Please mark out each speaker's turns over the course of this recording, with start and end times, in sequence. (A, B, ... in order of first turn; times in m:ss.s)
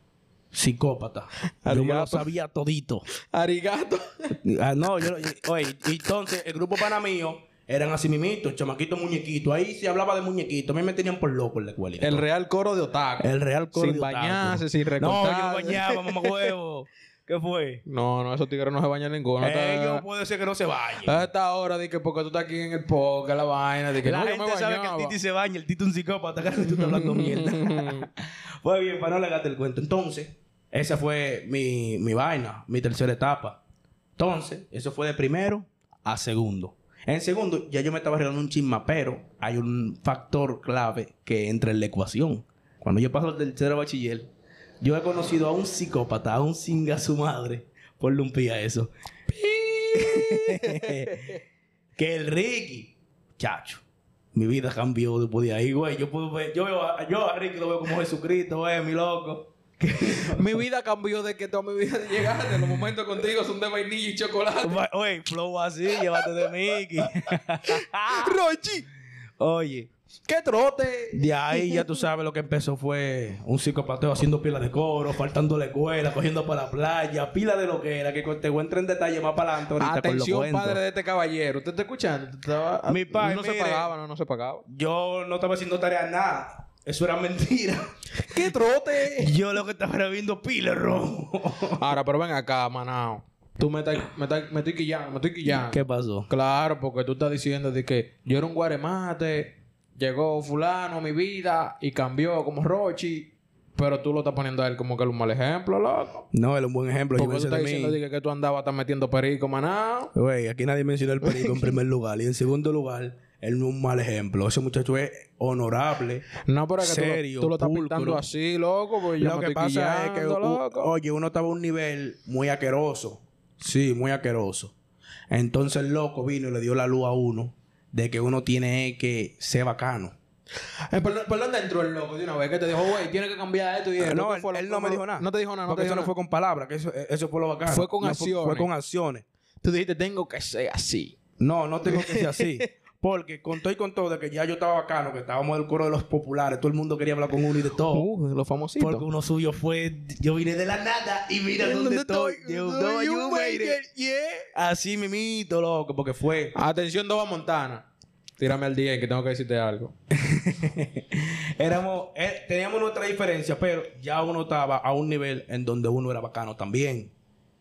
0:00.5-0:03.0 A
0:01.6-0:02.3 B
0:03.3-0:04.4 B
0:04.4-0:12.2 A
0:12.0-0:16.5 B
0:13.2-0:17.8 A
0:17.9-0:20.0 B
0:19.4-0:21.3 A
0:21.0-0:25.2 B
0:24.0-0:33.6 A
0:26.7-0:28.1 B
0:34.2-0:44.3 A
0:44.8-0:48.9 A
0:49.3-0:51.4 B
0:50.0-0:51.4 A
0:52.0-0:53.8 A
0:54.3-1:00.5 A
1:00.1-1:04.8 B
1:02.4-1:02.8 A
1:04.6-1:08.4 A
1:06.2-1:06.5 B
1:07.6-1:08.9 B
1:09.4-1:09.9 A
1:10.3-1:11.9 B
1:11.2-1:20.8 A
1:19.8-1:24.6 B
1:22.9-1:23.9 A
1:24.7-1:27.9 A
1:28.3-1:29.3 B
1:29.2-1:31.8 A
1:31.8-1:46.3 B
1:35.5-1:36.3 A
1:46.3-1:48.0 A
1:47.2-1:50.1 B
1:50.2-1:56.2 A
1:51.2-1:51.8 B
1:56.5-2:00.9 B
1:56.8-1:58.2 A
1:59.2-2:04.7 A
2:05.3-2:10.2 A
2:10.9-2:16.1 B
2:14.0-2:19.2 A
2:17.7-2:18.7 B
2:19.6-2:21.2 B
2:21.4-2:28.1 A
2:21.9-2:22.7 B
2:27.9-2:29.1 B
2:28.8-2:33.8 A
2:31.6-2:34.5 B
2:34.5-2:36.5 A
2:36.6-2:37.9 B
2:38.4-2:39.9 B
2:40.1-2:47.1 A